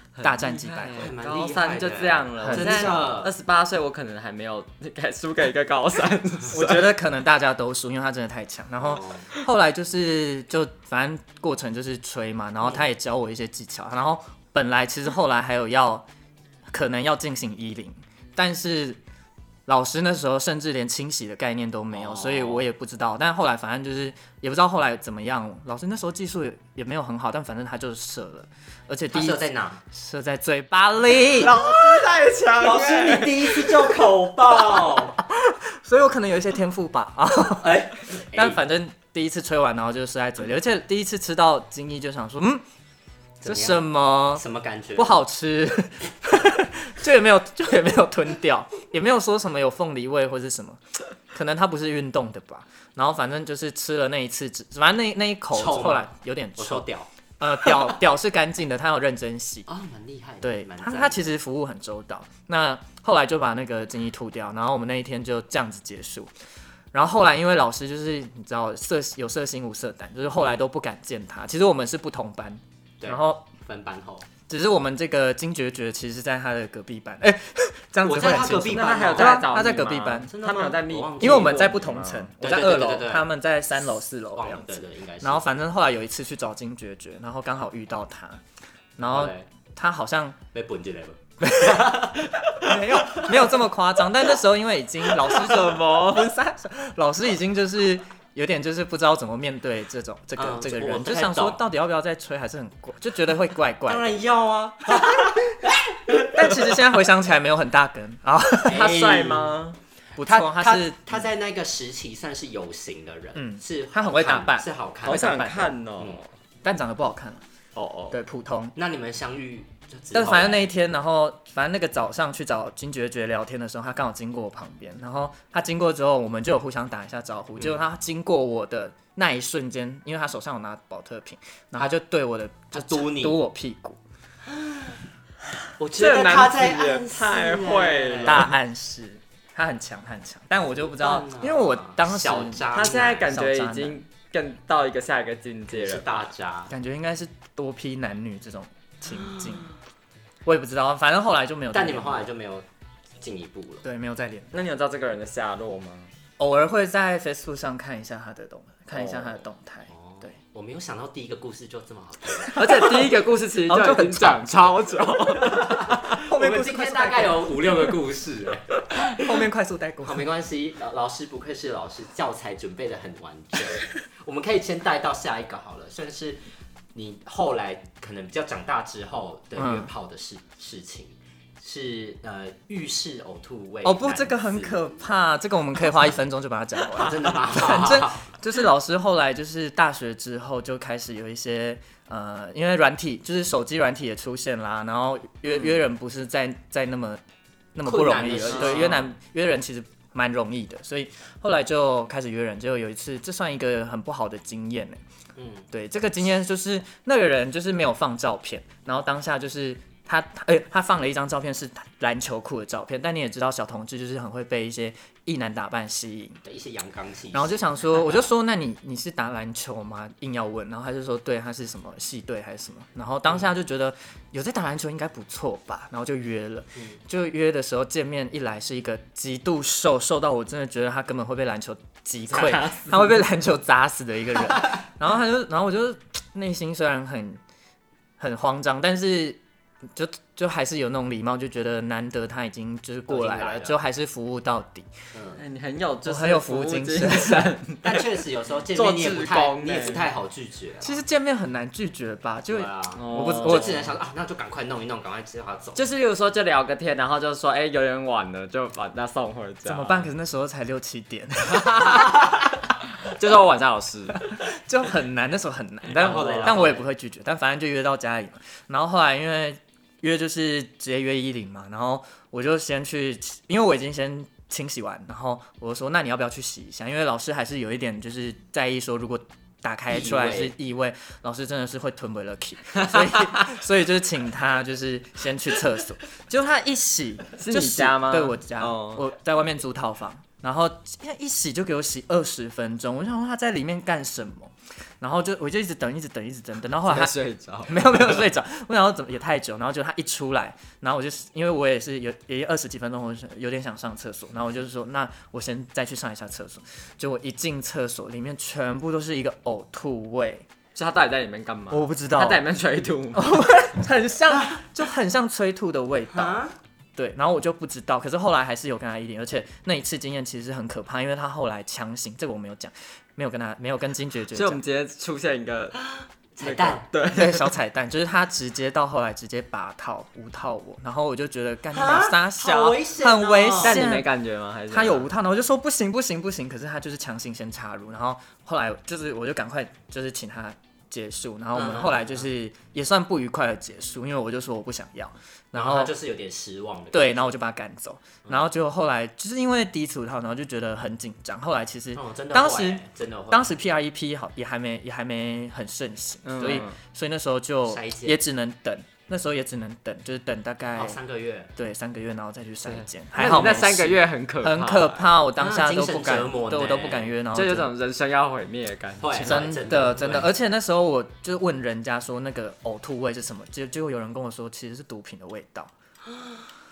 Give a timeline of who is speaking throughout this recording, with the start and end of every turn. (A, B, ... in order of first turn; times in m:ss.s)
0:00.2-0:06.9 A
0:00.2-0:01.1 B
0:00.9-0:03.3 C
0:02.4-0:03.1 B
0:06.5-0:16.1 B
0:08.8-0:09.3 C
0:16.7-0:19.0 B
0:19.7-0:29.4 B
0:21.9-0:22.6 C
0:29.1-0:29.8 C
0:29.9-0:31.6 B
0:31.4-0:33.9 A
0:31.6-0:32.1 C
0:32.6-0:35.2 C
0:35.3-0:42.6 B
0:37.6-0:38.6 C
0:43.4-0:45.2 C
0:43.4-0:44.4 B
0:45.0-0:50.8 B
0:51.3-0:56.9 B
0:55.5-0:57.1 C
0:57.4-0:59.7 B
0:59.7-1:01.3 C
1:00.4-1:06.3 B
1:06.9-1:13.5 B
1:13.0-1:14.3 C
1:14.5-1:20.3 B
1:18.0-1:19.6 C
1:18.7-1:22.3 A
1:20.3-1:21.8 C
1:21.2-1:28.4 B
1:22.4-1:23.3 C
1:24.4-1:25.5 C
1:29.0-1:30.4 B
1:29.0-1:29.5 C
1:30.5-1:33.4 C
1:31.4-1:32.0 B
1:32.6-1:44.2 B
1:35.3-1:36.3 A
1:40.4-1:41.6 C
1:43.9-1:46.3 C
1:46.2-1:48.9 B
1:48.7-1:49.6 C
1:48.7-1:49.8 A
1:50.2-1:51.3 B
1:50.2-1:56.2 C
1:53.4-1:55.7 B
1:55.0-1:56.3 A
1:56.6-1:57.4 B
1:57.8-1:58.2 A
1:58.1-1:58.8 B
1:58.8-2:00.7 C
2:00.1-2:14.0 B
2:12.7-2:13.4 C
2:14.5-2:15.0 C
2:15.8-2:18.5 C
2:15.9-2:18.5 A
2:18.2-2:22.7 B
2:20.8-2:23.3 C
2:22.7-2:26.3 A
2:23.2-2:24.0 B
2:25.7-2:26.7 C
2:26.7-2:29.7 B
2:29.1-2:29.7 C
2:30.4-2:32.3 B
2:31.7-2:32.6 C
2:33.2-2:33.8 C
2:33.8-2:34.5 B
2:34.5-2:36.1 A
2:36.4-2:40.4 B
2:38.9-2:39.4 A
2:39.9-2:42.6 C
2:42.5-2:43.1 B
2:42.5-2:46.2 A
2:43.7-2:44.5 B
2:45.4-2:49.4 C
2:46.2-2:47.7 B
2:49.1-2:50.3 B
2:50.0-2:56.4 C
2:56.9-3:05.0 C
2:59.6-2:59.9 B
3:03.8-3:17.2 B
3:06.9-3:08.3 C
3:17.8-3:25.0 B
3:17.8-3:19.0 C
3:18.5-3:19.1 A
3:25.4-3:25.7 C
3:25.7-3:36.4 B
3:36.5-3:38.3 C
3:37.3-3:57.4 B
3:52.3-3:53.2 A
3:58.2-3:59.4 B
4:00.0-4:04.9 B
4:03.1-4:03.8 C
4:05.1-4:05.4 C
4:05.4-4:08.1 A
4:06.0-4:07.5 B
4:07.8-4:11.0 C
4:08.7-4:10.1 A
4:10.8-4:13.8 B
4:12.5-4:15.9 C
4:12.9-4:13.9 A
4:15.8-4:20.1 A
4:19.6-4:22.3 B
4:21.5-4:22.1 A
4:23.1-4:24.2 A
4:24.3-5:10.5 B
4:25.9-4:26.9 C
4:26.0-4:26.7 A
4:39.9-4:40.6 C
4:42.8-4:43.5 A
4:47.4-4:49.0 A
4:56.9-4:58.3 A
5:10.8-5:13.4 A
5:11.7-5:12.4 B
5:13.1-5:16.4 B
5:16.1-5:16.5 C
5:17.0-5:24.6 B
5:24.3-5:25.8 A
5:25.8-5:26.9 C
5:26.4-5:27.5 A
5:27.1-5:34.1 B
5:31.7-5:33.8 C
5:33.6-5:35.1 A
5:34.7-5:45.9 B
5:41.6-5:42.3 C
5:45.5-5:47.4 C
5:46.9-6:01.0 B
5:52.0-5:53.6 C
5:56.2-5:56.8 A
5:57.7-5:58.2 C
6:00.8-6:01.5 C
6:01.6-6:07.7 B
6:02.7-6:05.1 A
6:05.4-6:07.2 C
6:07.3-6:09.4 A
6:09.0-6:10.3 C
6:09.2-6:15.7 B
6:16.1-6:16.4 C